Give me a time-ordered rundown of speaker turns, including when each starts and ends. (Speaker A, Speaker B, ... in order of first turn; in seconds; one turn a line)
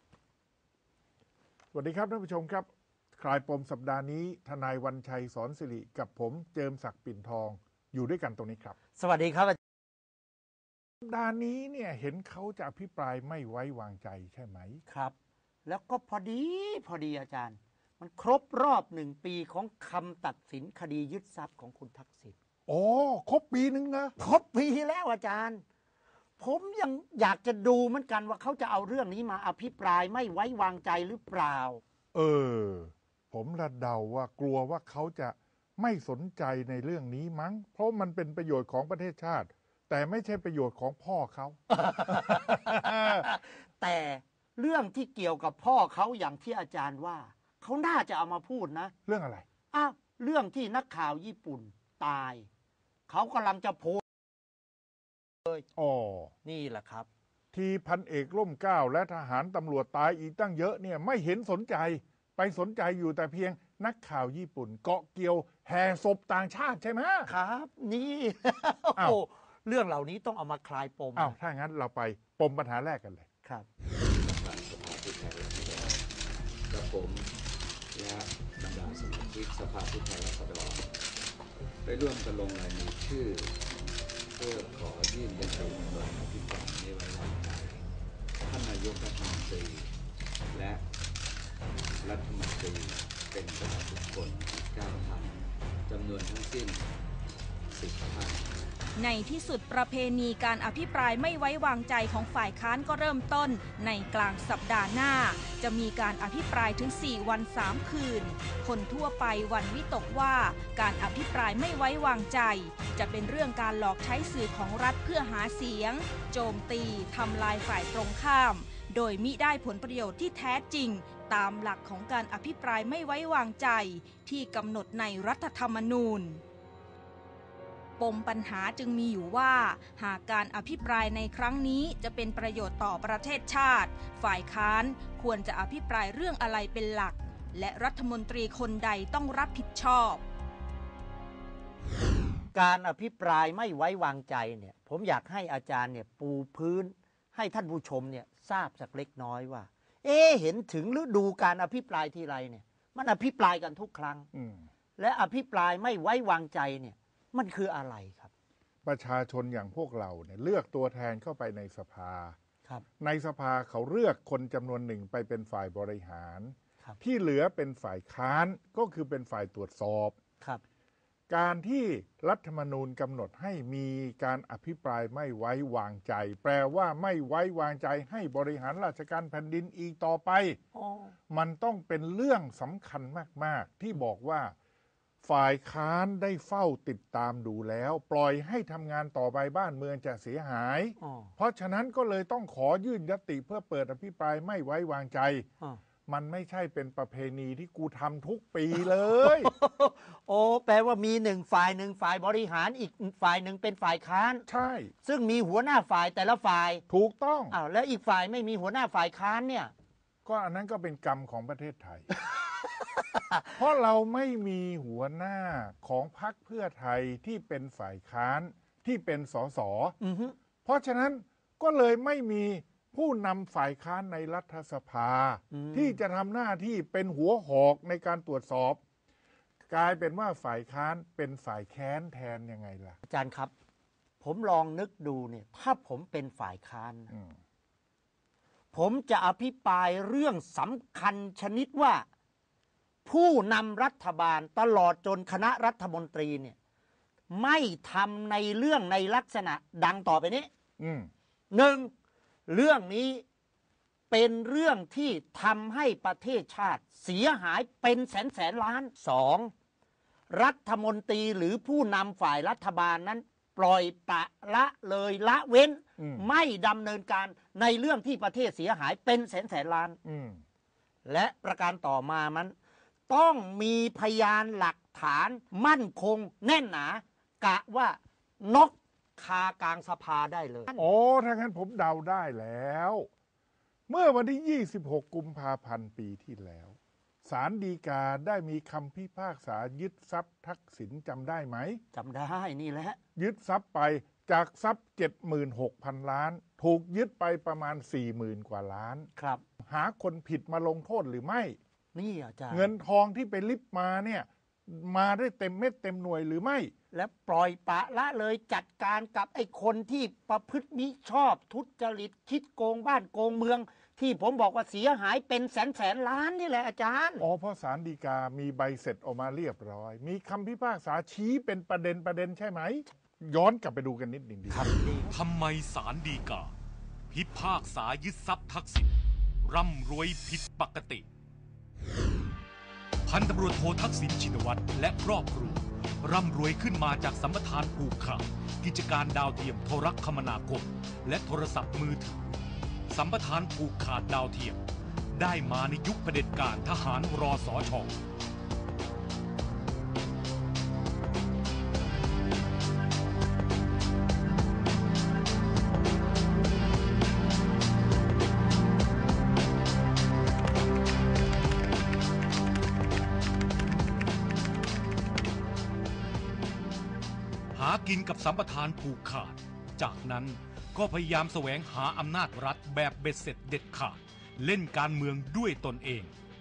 Speaker A: 1.7-8.8
Speaker B: 9.0-9.6
Speaker A: 11.0-14.8
Speaker B: 14.9-22.4
Speaker A: 22.7-24.1
Speaker B: 24.2-25.6
Speaker B: 26.4-31.8
Speaker A: 32.1-41.6
Speaker B: 41.8-48.9
Speaker A: 42.3-43.2
Speaker A: 49.0-49.5
Speaker B: 49.7-52.5
Speaker B: 53.1-54.0
Speaker A: 55.7-56.3
Speaker B: 56.4-57.1
Speaker A: 57.5-67.3
Speaker B: 67.3-71.3
Speaker A: 71.2-73.3
Speaker C: 74.2-76.0
Speaker C: 76.7-77.3
Speaker C: 77.9-80.9
Speaker C: 81.8-83.5
Speaker C: 84.3-87.8
Speaker C: 88.4-89.9
Speaker C: 90.5-90.8
Speaker C: 92.0-96.9
Speaker C: 97.7-98.6
Speaker D: 99.0-126.4
Speaker D: 128.0-140.2
Speaker B: 142.5-154.3
Speaker A: 154.3-154.7
Speaker B: 155.0-158.3
Speaker A: 158.8-162.3
Speaker A: 163.0-170.2
Speaker A: 171.3-180.6
Speaker B: 180.7-181.1
Speaker A: 181.3-184.5
Speaker A: 185.2-195.5
Speaker B: 191.0-191.3
Speaker A: 196.1-199.5
Speaker B: 199.2-204.4
Speaker A: 204.5-204.9
Speaker B: 205.0-206.8
Speaker A: 206.9-207.6
Speaker B: 207.5-209.7
Speaker A: 210.2-212.1
Speaker A: 213.6-220.0
Speaker B: 220.0-220.3
Speaker A: 220.6-228.8
Speaker B: 225.5-226.0
Speaker A: 229.7-233.0
Speaker B: 233.1-233.5
Speaker B: 234.2-237.1
Speaker B: 238.7-242.0
Speaker B: 243.0-246.6
Speaker B: 247.3-250.5
Speaker A: 250.8-251.1
Speaker B: 251.5-251.9
Speaker B: 252.5-253.2
Speaker B: 254.1-259.5
Speaker B: 260.3-270.0
Speaker A: 266.0-266.2
Speaker A: 270.0-270.4
Speaker B: 271.0-272.5
Speaker B: 273.1-280.9
Speaker A: 280.8-283.1
Speaker A: 283.9-291.8
Speaker B: 291.9-293.0
Speaker A: 293.1-299.1
Speaker B: 299.1-299.4
Speaker A: 299.6-301.6
Speaker B: 301.9-302.7
Speaker A: 302.5-306.7
Speaker B: 306.9-317.2
Speaker A: 317.2-324.7
Speaker B: 324.5-325.1
Speaker E: 325.1-326.5
Speaker E: 327.1-331.0
Speaker E: 333.0-342.4
Speaker E: 342.9-344.6
Speaker E: 345.1-348.0
Speaker E: 367.5-376.1